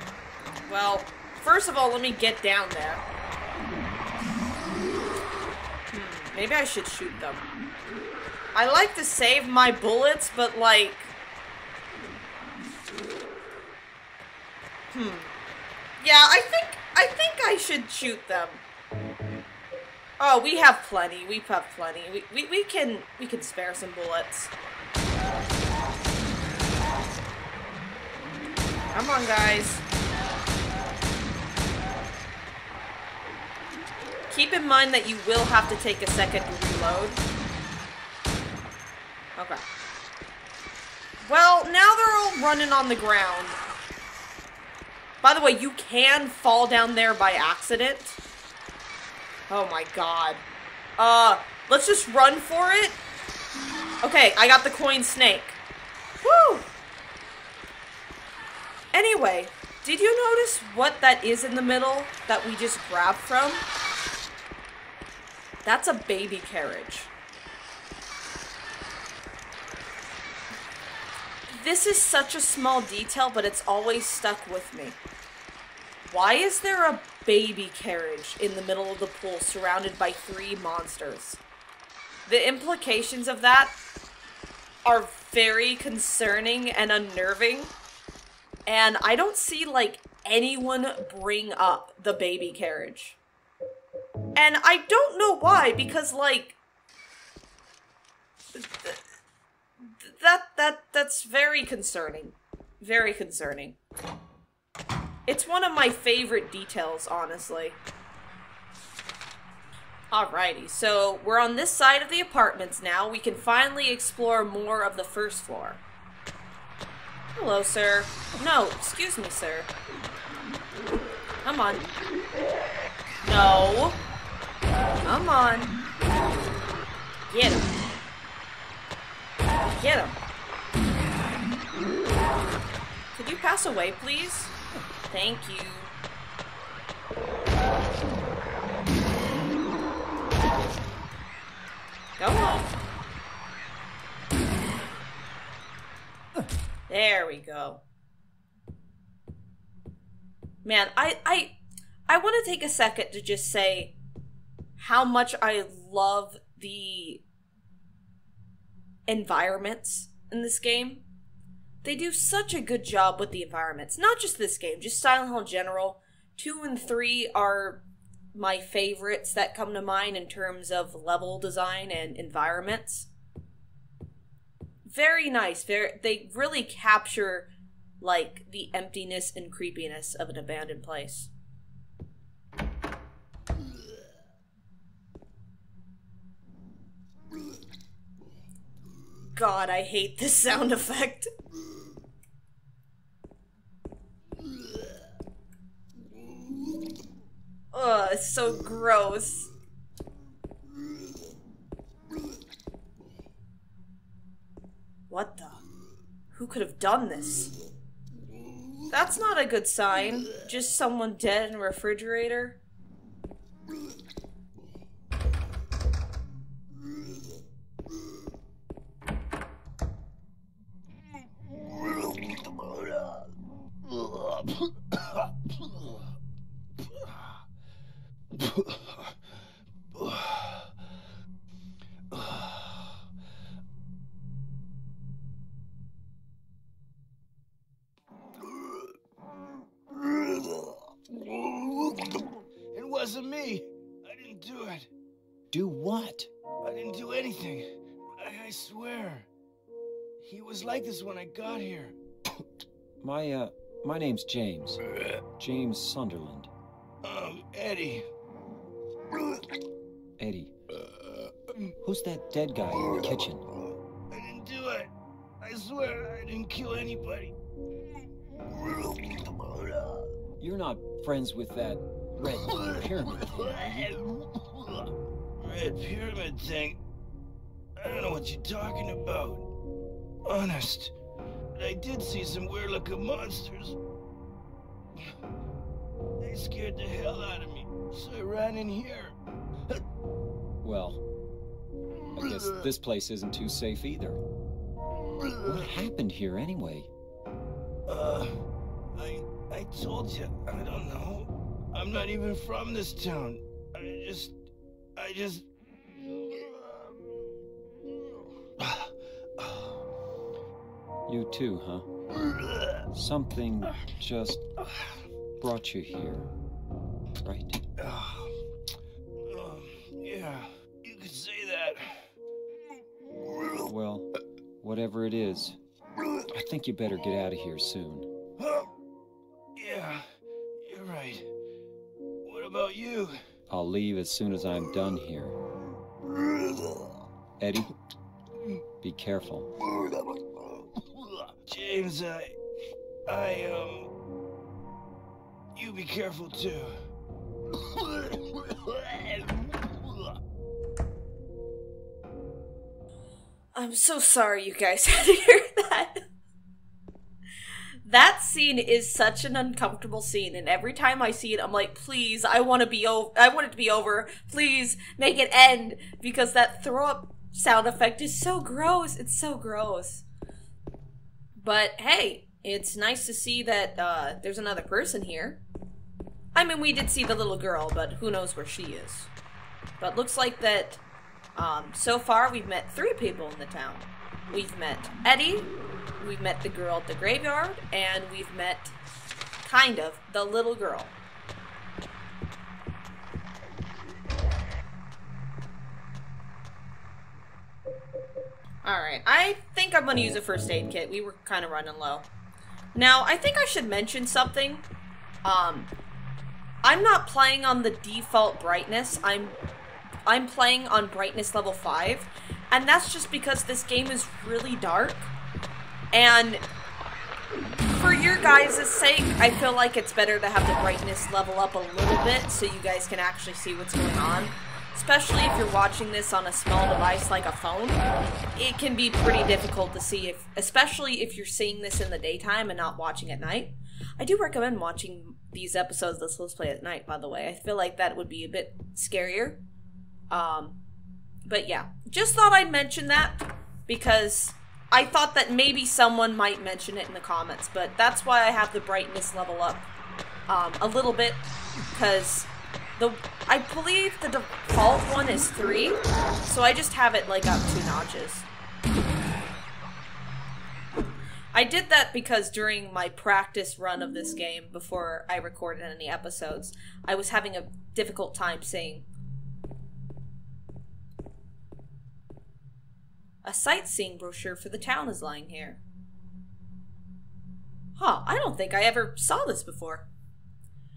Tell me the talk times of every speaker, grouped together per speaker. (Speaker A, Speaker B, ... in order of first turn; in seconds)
Speaker A: 0.7-3.0, 5.9-7.5, 8.5-11.1, 14.9-15.3, 16.0-18.6, 20.2-24.5, 28.9-29.8, 34.3-37.2, 39.4-39.6, 41.2-43.6, 45.2-48.2, 49.5-50.4, 51.0-53.0, 54.0-55.6, 56.2-56.7, 58.9-63.6, 65.7-67.1, 71.5-75.0, 76.0-81.4, 82.3-83.8, 84.8-87.7, 88.7-93.2, 94.3-96.6, 98.5-99.0, 99.8-103.8, 105.3-107.8, 110.1-115.8, 117.3-119.7, 121.4-121.9, 123.2-124.0, 125.0-125.8, 127.3-127.7, 129.7-130.2, 133.2-134.5, 135.1-135.9, 142.2-142.8, 146.9-147.8, 150.6-151.6, 152.1-153.9, 154.8-157.2, 159.1-161.1, 161.8-173.1, 174.8-177.5, 178.0-181.3, 189.3-191.3, 197.7-199.5, 205.1-205.6, 206.3-207.6, 208.9-212.6, 353.6-355.9, 357.9-370.1, 371.4-375.4, 376.3-379.1, 379.8-380.8, 381.4-388.8, 389.4-390.9, 398.6-402.1, 402.8-404.6, 405.2-405.7, 406.6-409.4, 410.1-415.1, 415.9-416.4, 417.7-427.8, 428.4-439.4, 440.1-440.6, 441.3-449.7, 450.3-458.3, 461.3-468.9, 473.2-475.6, 477.8-479.9
Speaker B: 223.9-225.3, 228.3-229.1, 229.9-230.7, 232.1-232.8, 239.9-244.9, 246.6-249.3, 250.2-252.0, 257.0-258.1, 264.1-267.3, 268.4-269.6, 273.3-276.8, 277.8-279.5, 280.2-280.9, 281.6-283.8, 286.2-289.1, 295.2-295.5, 297.9-298.4, 298.9-304.4, 305.0-306.9, 308.6-309.6, 312.3-312.8, 317.8-318.4, 319.2-322.1, 328.4-328.7, 329.6-330.1, 330.6-331.3, 332.2-333.2, 340.8-342.3, 343.1-343.9, 345.6-346.8, 347.6-350.1
Speaker C: 245.5-246.3, 253.0-254.8, 255.4-256.5, 260.2-260.5, 261.8-263.4, 270.4-273.9, 290.6-291.0, 292.1-294.2, 295.4-296.9, 311.1-311.9, 312.9-314.4, 315.4-316.3, 317.2-317.6, 323.6-324.1, 324.6-325.6, 326.3-328.1, 333.5-335.4, 337.4-337.7, 338.8-339.5